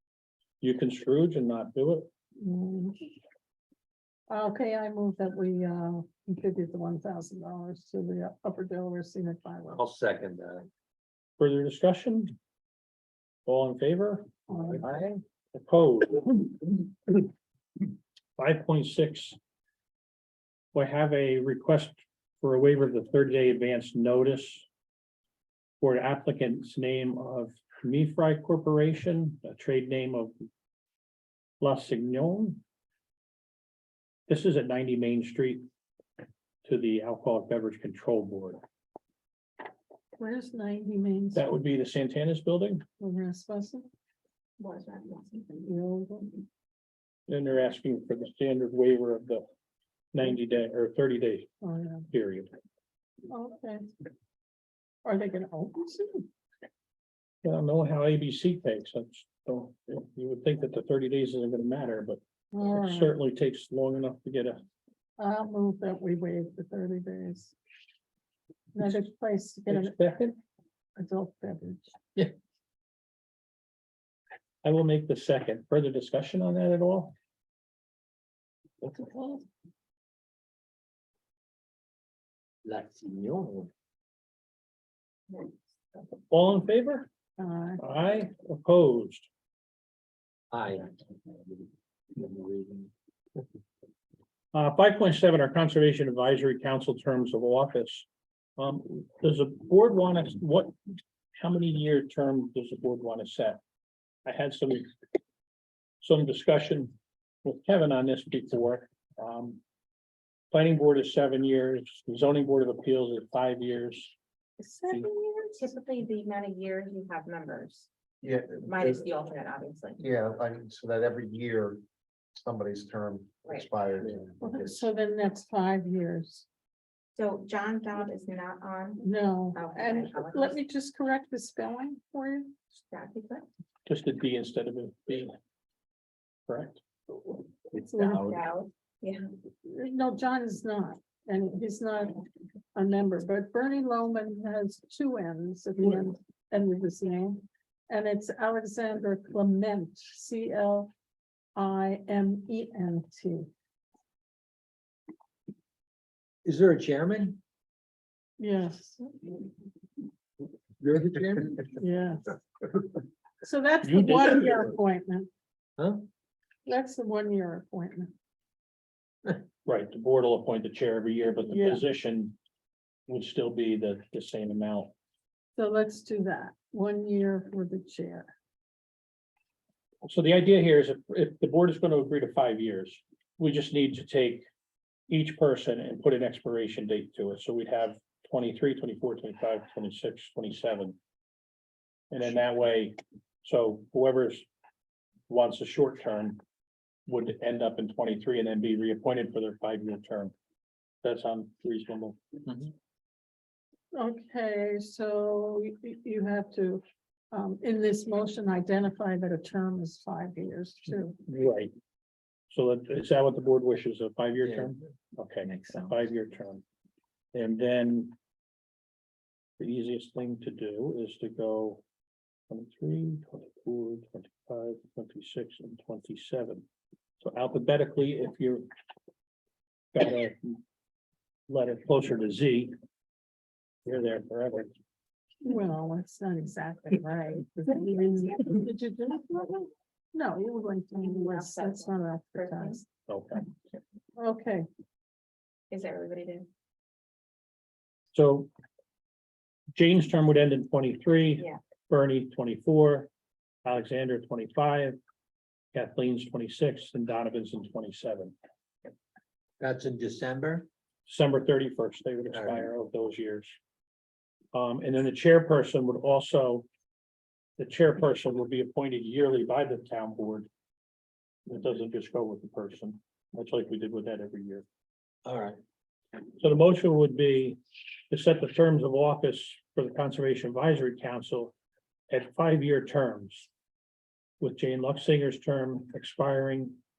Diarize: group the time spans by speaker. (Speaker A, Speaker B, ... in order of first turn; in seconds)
Speaker A: 0.6-2.1, 11.4-12.3, 13.4-14.3, 15.5-17.3, 18.4-19.4, 20.7-24.6, 25.8-30.4, 31.6-32.6, 34.3-35.7, 36.6-38.6, 41.3-42.8, 47.3-49.5, 50.1-51.5, 52.1-52.5, 57.4-64.6, 69.7-70.4, 74.6-77.1, 86.3-87.1, 87.8-89.3, 94.5-100.7, 101.3-103.6, 104.2-104.9, 106.0-109.6, 110.5-114.1, 133.8-135.3, 136.5-136.8, 163.8-164.4, 169.6-172.4, 173.1-174.9, 180.0-184.5, 185.1-191.0, 192.1-194.5, 195.3-196.4, 197.1-200.3, 201.0-202.2, 211.2-211.7, 212.5-216.6, 217.3-218.1, 219.6-221.8, 222.5-226.7, 227.2-228.7, 229.9-230.6, 231.5-232.7, 233.8-234.7, 243.1-243.5, 248.1-248.5, 249.7-253.1, 253.6-255.0, 255.7-258.3, 261.1-263.6, 264.5-266.7, 267.6-270.5, 271.4-274.6, 276.4-277.6, 278.1-281.5, 282.1-283.5, 284.4-286.8
Speaker B: 2.4-3.1, 4.3-9.8, 14.5-14.8, 40.2-41.4, 43.0-43.9, 45.6-46.4, 51.6-52.1, 53.3-53.9, 55.0-56.3, 62.5-63.2, 65.2-67.5, 68.7-70.0, 71.0-71.9, 87.4-87.8, 114.6-115.6, 124.4-126.5, 129.0-132.5, 137.8-138.3, 139.6-142.2, 142.7-150.9, 151.6-153.5, 158.4-159.3, 161.7-162.3, 163.4-165.3, 166.7-168.1, 171.4-171.8, 175.5-178.3, 203.9-211.2, 235.4-242.8, 244.2-244.7
Speaker C: 9.7-10.7, 14.7-15.2, 78.8-79.5, 82.6-83.7, 90.5-92.9, 156.4-157.4, 160.8-161.8, 165.8-166.1, 214.4-214.7, 259.6-260.7, 262.3-262.7, 275.2-275.6
Speaker D: 44.6-45.6, 115.5-117.9, 118.6-120.0, 127.2-130.6, 132.8-133.4, 138.0-139.3, 241.0-242.8, 245.7-246.5
Speaker E: 118.2-119.0, 120.0-121.8, 122.3-124.8